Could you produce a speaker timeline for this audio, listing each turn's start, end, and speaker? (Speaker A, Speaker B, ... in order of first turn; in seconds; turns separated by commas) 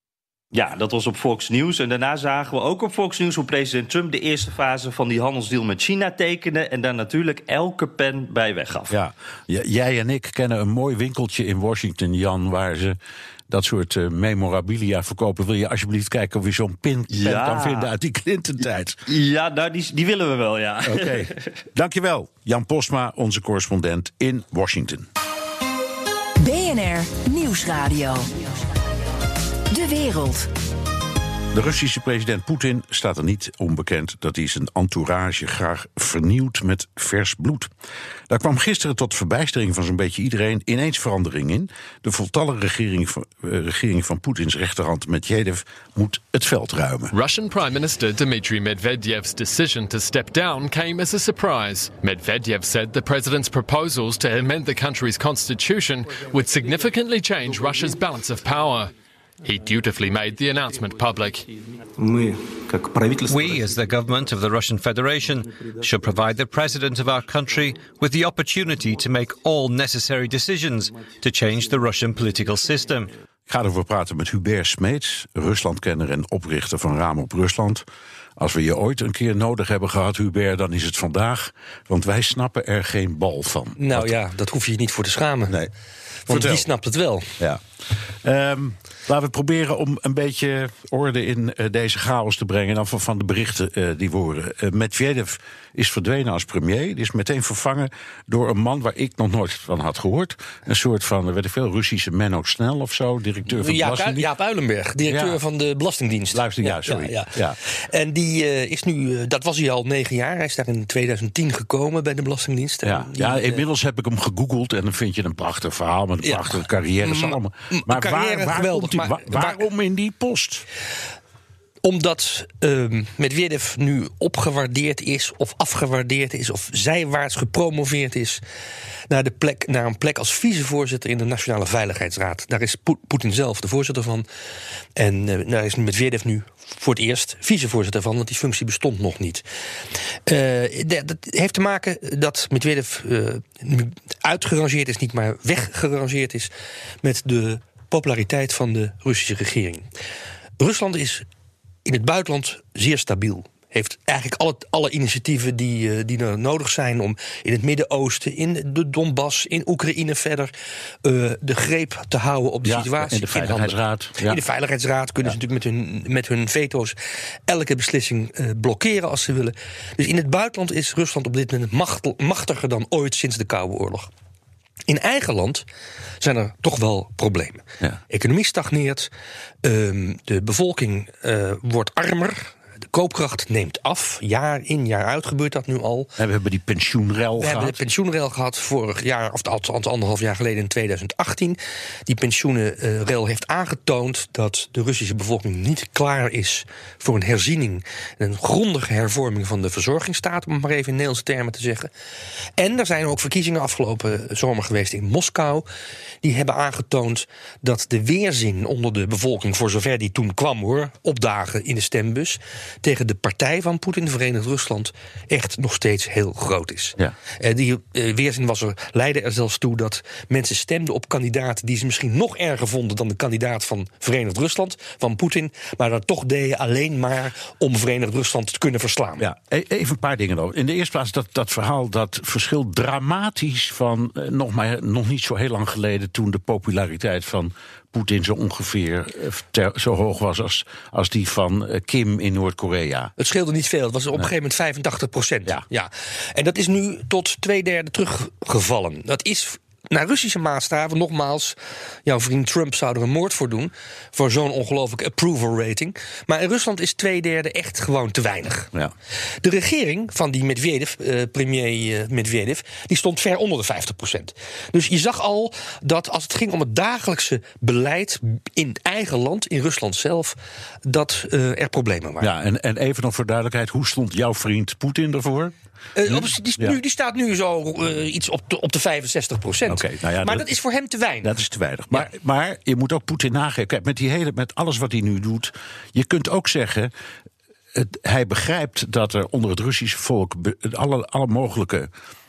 Speaker A: 0.5-8.9, Speaker B: 8.9-13.0, Speaker B: 13.5-19.0, Speaker A: 17.1-17.9, Speaker A: 19.1-21.4, Speaker B: 20.9-25.1, Speaker C: 26.4-28.9, Speaker C: 29.7-30.5, Speaker B: 31.5-37.7, Speaker B: 38.3-47.1, Speaker D: 47.1-58.9, Speaker D: 59.4-61.4, Speaker E: 63.3-73.1, Speaker B: 73.5-77.8, Speaker B: 78.4-84.1, Speaker F: 83.8-85.7, Speaker F: 86.2-87.3, Speaker B: 86.3-86.7, Speaker B: 88.2-104.3, Speaker F: 103.5-113.6, Speaker B: 105.1-105.4, Speaker B: 106.3-107.6, Speaker B: 112.8-120.7, Speaker F: 116.2-119.7, Speaker F: 121.8-128.4, Speaker F: 129.1-134.2, Speaker F: 135.0-139.4, Speaker F: 140.3-146.5, Speaker F: 147.0-149.8, Speaker F: 150.6-151.2, Speaker F: 151.8-160.5, Speaker F: 161.0-166.9, Speaker B: 162.6-164.4, Speaker F: 167.5-174.1, Speaker F: 174.9-175.6, Speaker F: 176.2-179.1, Speaker F: 179.6-186.1, Speaker B: 186.2-187.8, Speaker F: 187.4-201.9, Speaker F: 202.6-205.7, Speaker F: 206.2-229.2, Speaker B: 229.2-243.1, Speaker F: 243.2-258.7, Speaker F: 259.4-272.3, Speaker B: 272.2-276.8, Speaker F: 275.9-281.3, Speaker B: 279.7-280.5, Speaker B: 281.2-286.9, Speaker B: 287.7-291.9